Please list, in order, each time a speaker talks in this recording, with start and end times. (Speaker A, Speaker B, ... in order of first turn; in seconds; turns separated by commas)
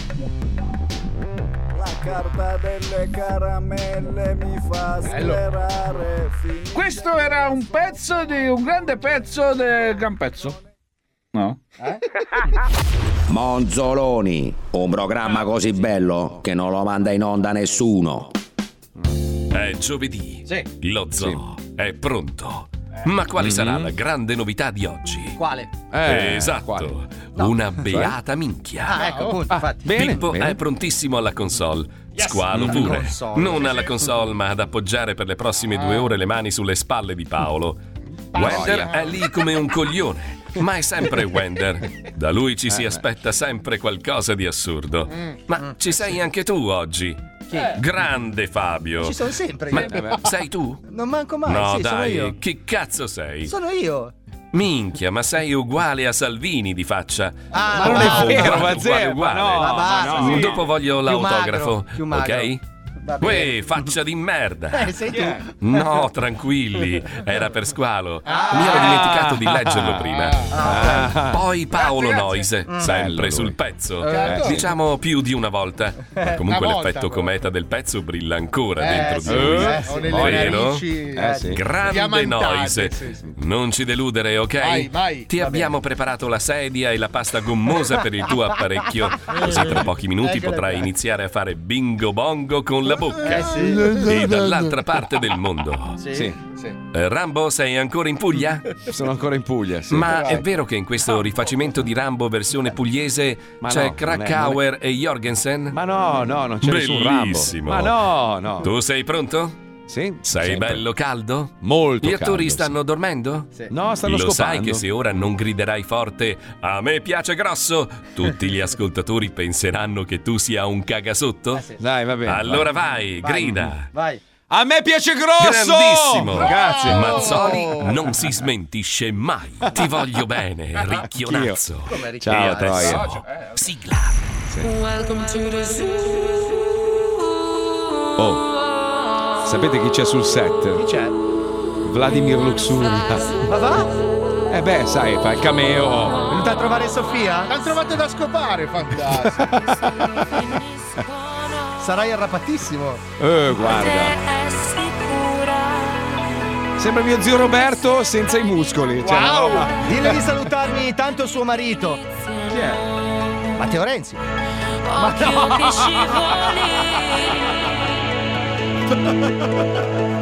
Speaker A: 1.8-7.1, Speaker B: 6.7-7.6, Speaker B: 8.2-10.0, Speaker C: 13.3-18.3, Speaker D: 19.5-25.4, Speaker E: 21.2-21.4, Speaker E: 23.4-23.9, Speaker F: 25.4-25.7, Speaker E: 25.9-26.9, Speaker D: 26.0-29.0, Speaker E: 27.9-28.2, Speaker F: 28.9-30.2, Speaker G: 28.9-29.4, Speaker E: 29.5-30.6, Speaker D: 29.9-37.8, Speaker F: 32.2-33.9, Speaker E: 32.5-33.0, Speaker E: 38.3-39.1, Speaker D: 38.3-49.2, Speaker G: 38.5-38.8, Speaker E: 42.7-43.0, Speaker G: 45.1-45.4, Speaker F: 47.5-47.8, Speaker F: 49.0-50.1, Speaker D: 49.7-50.8, Speaker E: 49.7-50.3, Speaker F: 50.9-52.4, Speaker D: 51.5-53.5, Speaker F: 53.5-54.1, Speaker D: 54.5-62.6, Speaker F: 57.5-58.8, Speaker E: 57.8-60.6, Speaker F: 59.6-62.5, Speaker F: 63.0-63.9, Speaker D: 63.2-70.6, Speaker F: 64.7-66.0, Speaker F: 68.3-69.0, Speaker E: 68.6-70.1, Speaker F: 70.5-71.1, Speaker E: 70.6-71.4, Speaker D: 71.2-80.9, Speaker E: 72.8-73.6, Speaker F: 74.0-74.4, Speaker G: 74.0-74.6, Speaker E: 74.2-74.7, Speaker G: 76.4-77.3, Speaker G: 78.8-83.2, Speaker F: 78.8-80.3, Speaker E: 79.3-80.5, Speaker E: 81.1-81.6, Speaker D: 81.5-96.0, Speaker G: 84.6-85.3, Speaker F: 85.4-85.7, Speaker F: 89.3-90.9, Speaker F: 93.2-94.0, Speaker F: 96.0-96.8, Speaker D: 96.9-98.8, Speaker E: 98.9-100.4, Speaker D: 99.9-105.8, Speaker E: 103.6-104.6, Speaker E: 105.7-108.7, Speaker D: 106.6-108.0, Speaker D: 108.6-109.6, Speaker E: 109.9-110.8, Speaker D: 110.2-113.5, Speaker E: 111.6-112.7, Speaker E: 113.7-114.8, Speaker D: 114.0-121.7, Speaker F: 121.5-121.8, Speaker E: 121.8-122.8, Speaker D: 122.2-123.9, Speaker F: 123.2-124.2, Speaker E: 124.5-127.6, Speaker D: 125.4-134.2, Speaker F: 127.3-128.1, Speaker E: 131.0-131.6, Speaker F: 131.9-133.0, Speaker E: 132.2-133.1, Speaker E: 138.2-138.5, Speaker E: 139.4-140.8, Speaker F: 140.8-141.1, Speaker E: 141.8-143.5, Speaker F: 143.5-143.9, Speaker E: 144.5-146.3, Speaker F: 146.3-147.5, Speaker G: 147.5-149.6, Speaker E: 149.1-150.1, Speaker H: 150.2-150.6, Speaker F: 151.8-153.0, Speaker E: 153.2-154.2, Speaker H: 153.7-156.2, Speaker E: 156.8-160.0, Speaker F: 159.0-162.0, Speaker F: 163.6-164.2, Speaker F: 165.0-165.8, Speaker H: 165.0-167.3